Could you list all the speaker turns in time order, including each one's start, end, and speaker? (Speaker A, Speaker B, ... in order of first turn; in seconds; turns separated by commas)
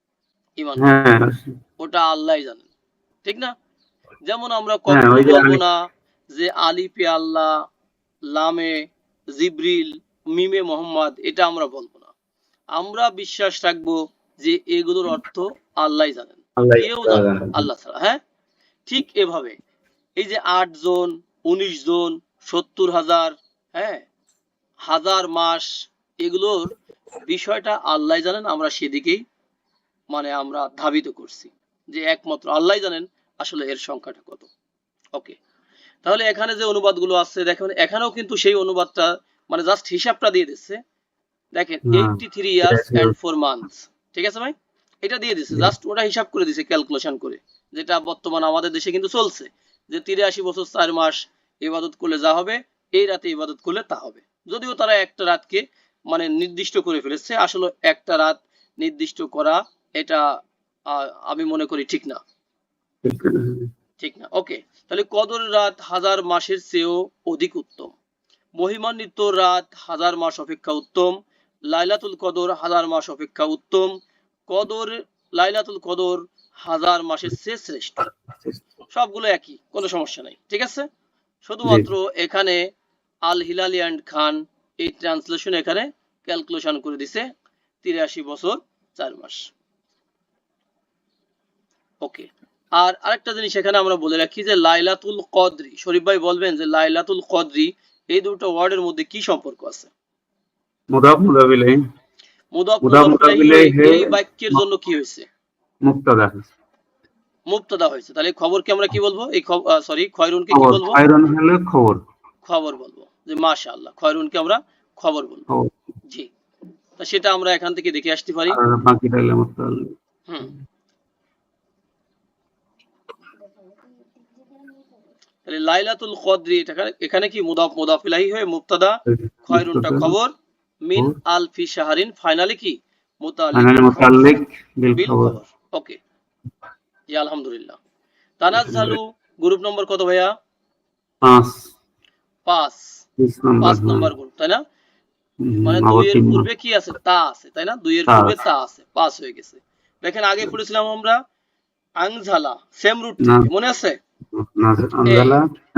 Speaker A: 0.6-1.0, Speaker B: 0.8-1.6, Speaker A: 1.8-2.7, Speaker A: 3.2-3.5, Speaker A: 4.2-5.8, Speaker B: 4.9-5.6, Speaker A: 6.3-7.5, Speaker A: 8.3-8.8, Speaker A: 9.3-12.1, Speaker A: 12.7-18.2, Speaker B: 16.6-17.6, Speaker A: 18.9-19.5, Speaker A: 20.2-24.1, Speaker A: 24.9-25.7, Speaker A: 26.2-29.2, Speaker A: 30.1-34.5, Speaker A: 36.0-40.8, Speaker A: 41.5-60.2, Speaker B: 41.9-43.1, Speaker A: 60.9-62.2, Speaker B: 63.0-63.7, Speaker A: 64.0-67.9, Speaker A: 68.6-71.2, Speaker A: 71.7-73.9, Speaker A: 74.5-78.0, Speaker A: 78.9-80.8, Speaker A: 81.4-82.6, Speaker A: 83.2-87.2, Speaker A: 87.8-89.4, Speaker A: 92.0-99.9, Speaker B: 100.9-101.8, Speaker A: 102.5-105.2, Speaker B: 102.8-104.6, Speaker B: 105.8-106.5, Speaker A: 107.5-111.0, Speaker B: 110.5-112.0, Speaker A: 112.4-115.5, Speaker A: 117.0-118.6, Speaker B: 118.5-119.9, Speaker A: 120.3-120.5, Speaker A: 125.5-128.9, Speaker B: 129.1-130.1, Speaker A: 129.5-130.3, Speaker A: 130.8-134.3, Speaker B: 133.5-135.3, Speaker A: 134.9-136.0, Speaker A: 137.1-137.8, Speaker A: 138.4-140.3, Speaker B: 138.6-139.0, Speaker B: 141.2-141.7, Speaker A: 142.4-142.8, Speaker B: 143.2-144.1, Speaker A: 143.6-144.6, Speaker B: 145.4-146.4, Speaker A: 145.6-151.2, Speaker B: 148.1-148.4, Speaker A: 152.0-153.9, Speaker B: 153.2-153.5, Speaker B: 154.3-155.4, Speaker A: 155.1-155.4